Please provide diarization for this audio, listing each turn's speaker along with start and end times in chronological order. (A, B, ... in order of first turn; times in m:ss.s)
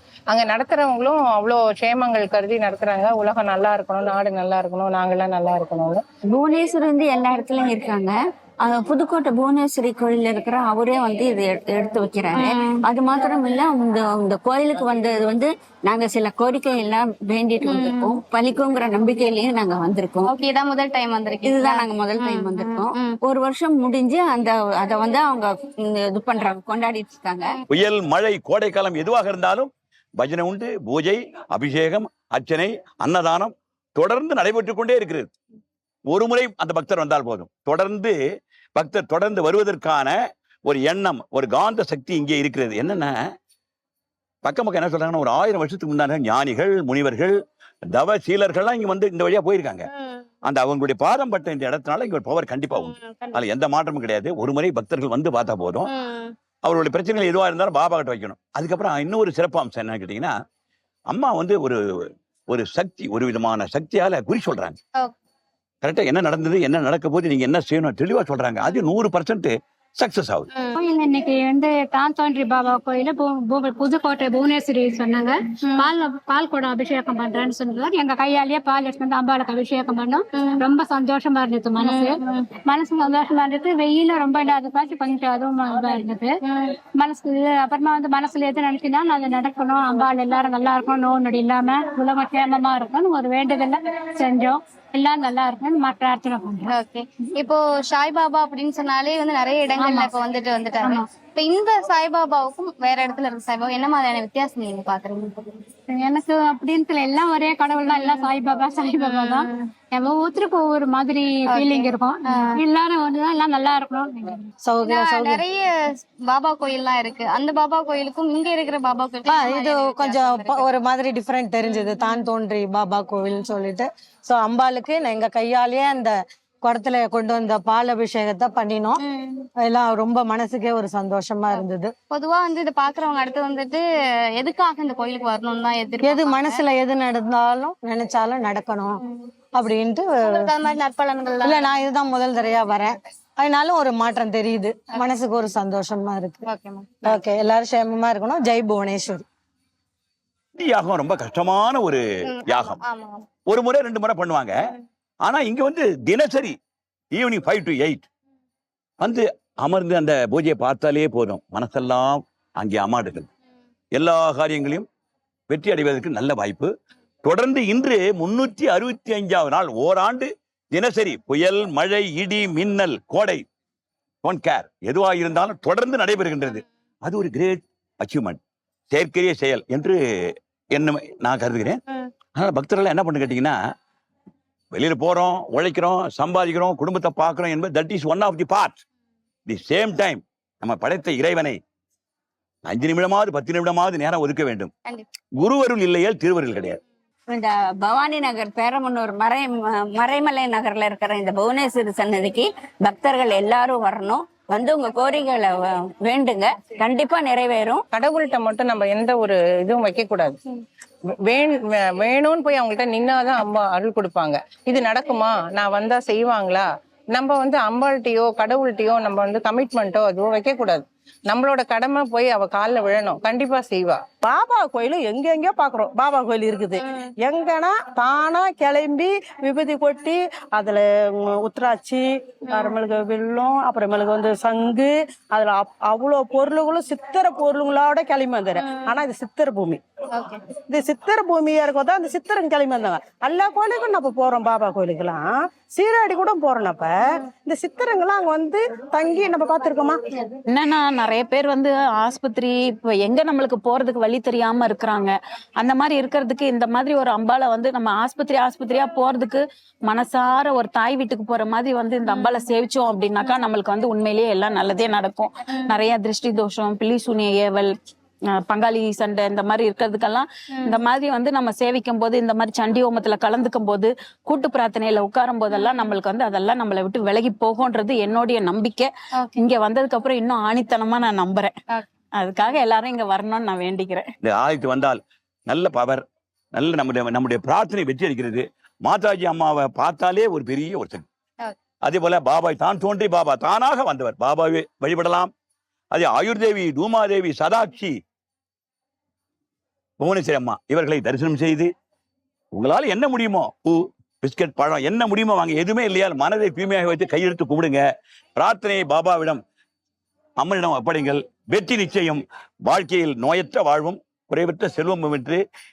0:00.3-0:06.0 A
0:06.3-0:20.3 B
0:12.3-0:12.7 C
0:17.6-0:18.2 C
0:20.2-0:23.2 C
0:21.4-0:25.5 B
0:26.1-0:27.6 B
0:27.7-0:35.3 D
0:36.1-0:38.2 D
0:38.8-0:43.2 D
0:44.4-0:47.4 D
0:47.9-0:49.9 D
0:49.9-0:50.2 C
0:50.4-0:55.9 D
0:52.7-0:53.4 C
0:55.9-0:56.3 C
0:56.6-1:00.3 D
1:01.1-1:01.8 D
1:02.5-1:04.8 D
1:05.8-1:10.5 D
1:10.8-1:26.4 E
1:20.4-1:20.6 C
1:21.8-1:22.5 C
1:27.0-1:36.8 E
1:36.7-1:45.4 C
1:39.8-1:40.1 E
1:40.8-1:41.1 E
1:45.9-1:54.4 E
1:47.9-1:48.3 C
1:49.0-1:49.6 C
1:51.5-1:52.6 C
1:54.7-1:55.4 F
1:54.8-1:55.7 C
1:56.3-2:00.7 C
1:59.3-2:06.1 F
2:01.6-2:02.2 C
2:06.7-2:09.0 F
2:09.0-2:09.5 C
2:09.7-2:11.9 F
2:11.5-2:13.8 C
2:14.4-2:16.6 C
2:16.0-2:19.0 F
2:19.6-2:20.5 F
2:20.3-2:21.7 C
2:21.4-2:26.4 F
2:26.5-2:27.2 C
2:27.0-2:29.2 F
2:30.6-2:32.8 D
2:32.3-2:33.3 C
2:33.5-2:34.6 D
2:35.2-2:36.6 D
2:37.1-2:38.1 D
2:39.0-2:43.3 D
2:43.9-2:44.9 D
2:45.5-2:46.7 D
2:47.2-2:53.4 D
2:54.2-2:58.4 D
2:58.9-3:01.8 D
3:02.3-3:03.6 D
3:04.7-3:08.8 D
3:09.5-3:11.6 D
3:12.7-3:14.7 D
3:15.4-3:16.8 D
3:17.3-3:27.8 B
3:27.9-3:30.4 A
3:31.3-3:44.0 A
3:44.2-3:59.8 G
3:52.5-3:52.8 C
4:00.7-4:10.2 G
4:10.5-4:27.7 H
4:22.1-4:22.5 C
4:28.5-4:41.5 H
4:35.5-4:35.9 C
4:42.2-4:44.1 H
4:44.2-4:46.0 D
4:46.6-4:51.1 D
4:51.9-4:55.3 D
4:55.9-4:58.0 D
5:00.0-5:01.7 D
5:02.5-5:07.8 D
5:08.4-5:09.4 D
5:10.4-5:15.4 D